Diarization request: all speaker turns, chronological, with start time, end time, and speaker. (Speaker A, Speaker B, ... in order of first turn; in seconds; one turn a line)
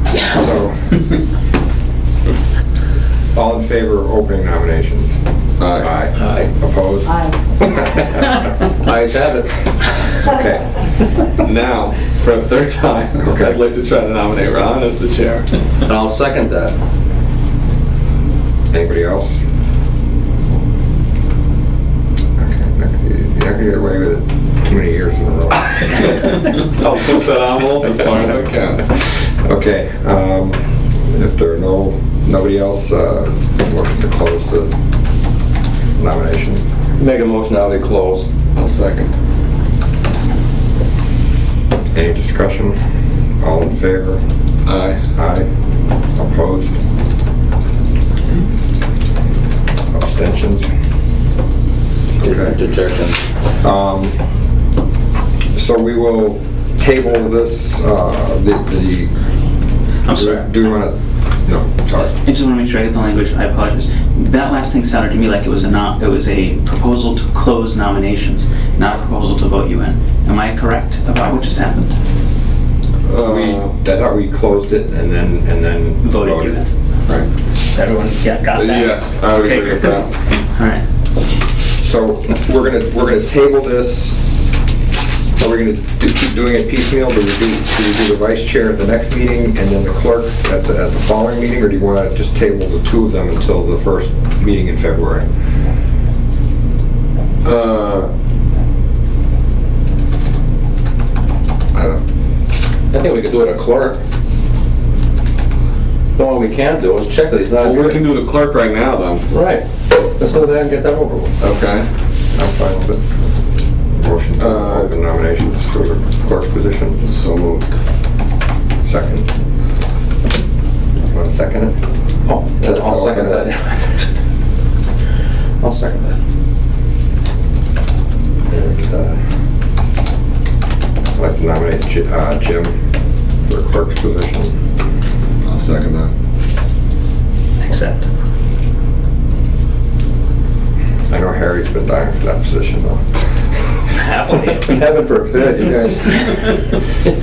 Speaker A: 0.2-0.9
Speaker A: 3.3-5.1
Speaker B: 5.6-6.0
Speaker A: 5.8-8.5
Speaker C: 6.1-6.5
Speaker C: 8.8-9.5
Speaker A: 10.2-11.1
Speaker B: 11.4-15.5
Speaker A: 13.2-13.6
Speaker C: 15.8-16.7
Speaker A: 18.7-19.4
Speaker A: 22.4-26.2
Speaker B: 26.8-29.2
Speaker A: 29.3-34.7
Speaker A: 36.0-36.6
Speaker C: 37.0-38.3
Speaker B: 38.5-39.1
Speaker A: 41.9-42.8
Speaker A: 43.4-44.2
Speaker B: 44.6-45.0
Speaker A: 45.1-45.5
Speaker A: 46.1-46.8
Speaker A: 49.9-50.7
Speaker C: 52.2-53.2
Speaker A: 52.2-52.6
Speaker A: 53.6-54.1
Speaker A: 55.5-59.1
Speaker D: 60.0-60.5
Speaker A: 60.1-60.9
Speaker A: 61.4-62.1
Speaker D: 62.2-71.9
Speaker B: 73.0-73.7
Speaker A: 73.2-76.6
Speaker D: 76.0-76.7
Speaker D: 77.7-80.8
Speaker B: 78.5-80.1
Speaker A: 81.8-84.2
Speaker A: 85.4-95.3
Speaker B: 97.4-98.1
Speaker B: 101.7-102.0
Speaker C: 102.9-104.0
Speaker C: 106.2-108.0
Speaker B: 107.5-109.3
Speaker C: 109.3-111.3
Speaker B: 111.4-111.9
Speaker A: 112.3-113.2
Speaker A: 114.0-117.0
Speaker B: 114.4-114.9
Speaker B: 117.0-117.7
Speaker A: 118.8-119.3
Speaker A: 121.1-121.7
Speaker C: 122.2-124.1
Speaker A: 122.6-123.5
Speaker C: 125.6-126.2
Speaker A: 128.5-129.2
Speaker A: 131.1-132.7
Speaker A: 133.4-134.5
Speaker B: 135.4-136.1
Speaker D: 137.6-138.1
Speaker A: 141.1-143.6
Speaker D: 143.9-144.8
Speaker C: 144.6-146.8